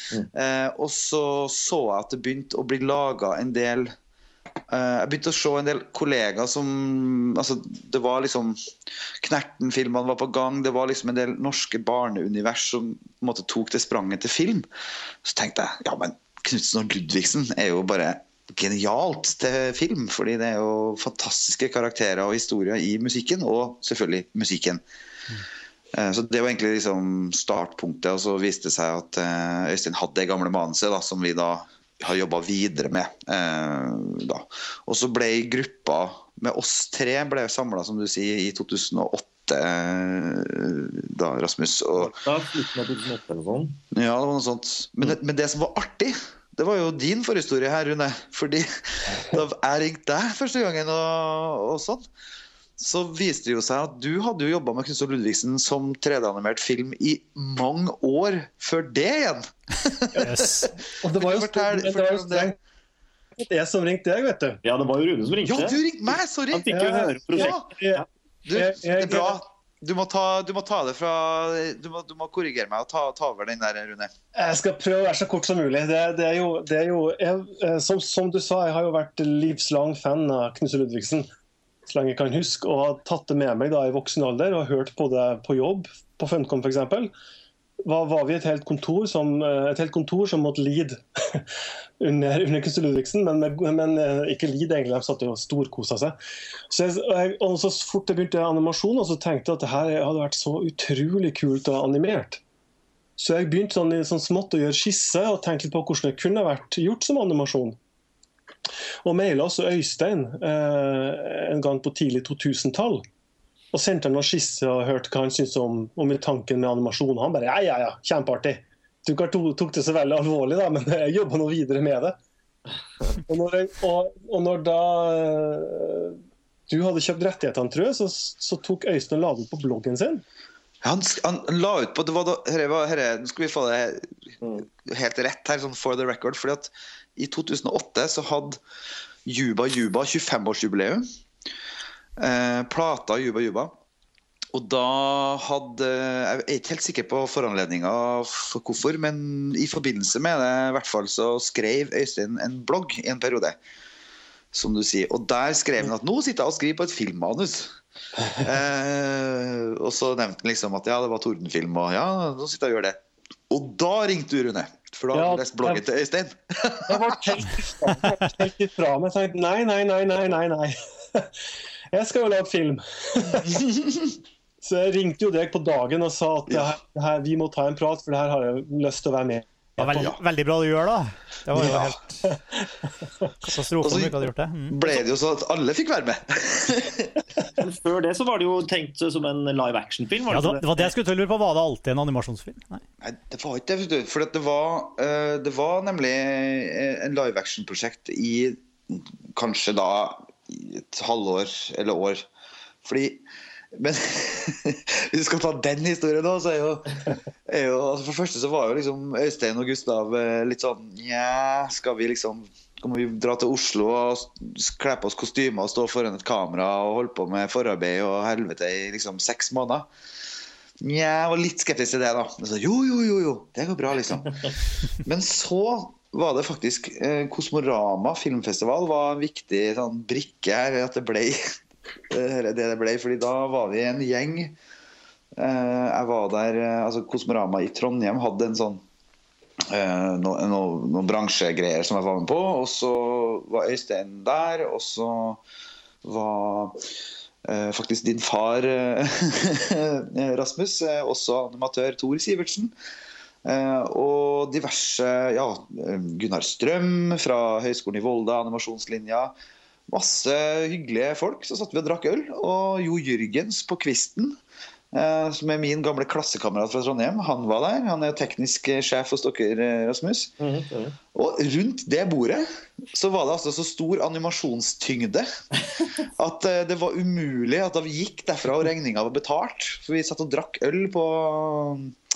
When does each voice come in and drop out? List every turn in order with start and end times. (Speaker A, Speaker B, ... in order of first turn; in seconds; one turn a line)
Speaker A: 0.3-3.9
Speaker A: 4.7-8.6
Speaker A: 9.2-14.7
Speaker A: 15.2-24.8
Speaker A: 25.9-42.1
Speaker B: 42.0-43.8
Speaker A: 43.9-52.0
Speaker A: 52.8-62.5
Speaker C: 60.2-60.7
Speaker D: 61.0-62.5
Speaker D: 63.4-64.6
Speaker B: 64.6-65.8
Speaker A: 65.5-66.7
Speaker B: 66.5-68.0
Speaker D: 66.7-69.4
Speaker A: 67.3-67.6
Speaker A: 68.5-74.1
Speaker D: 74.3-81.3
Speaker D: 81.9-87.1
Speaker D: 87.8-91.5
Speaker D: 92.0-96.2
Speaker D: 96.7-102.4
Speaker D: 103.2-107.8
Speaker D: 109.0-113.0
Speaker D: 113.7-122.2
Speaker D: 123.1-130.2
Speaker A: 130.8-134.1
Speaker A: 134.8-138.6
Speaker A: 139.3-141.0
Speaker A: 142.2-143.7
Speaker A: 144.5-153.6
Speaker A: 154.5-163.0
Speaker A: 163.5-167.2
Speaker D: 165.1-165.8
Speaker D: 166.9-171.3
Speaker D: 171.9-173.7
Speaker A: 173.8-174.1
Speaker D: 174.6-180.1
Speaker C: 179.8-182.3
Speaker A: 179.9-180.2
Speaker A: 181.6-181.9
Speaker C: 183.4-184.8
Speaker A: 183.8-184.1
Speaker A: 184.7-187.2
Speaker B: 187.6-190.9
Speaker C: 190.3-192.8
Speaker A: 193.0-202.2
Speaker A: 202.8-219.9
Speaker A: 220.8-231.4
Speaker A: 232.1-234.6
Speaker A: 235.4-238.8
Speaker A: 239.7-245.4
Speaker A: 246.0-246.9
Speaker A: 247.4-252.7
Speaker A: 253.4-259.4
Speaker A: 259.9-264.4
Speaker A: 264.9-270.3
Speaker B: 270.4-271.0
Speaker A: 271.1-275.3
Speaker A: 275.9-281.9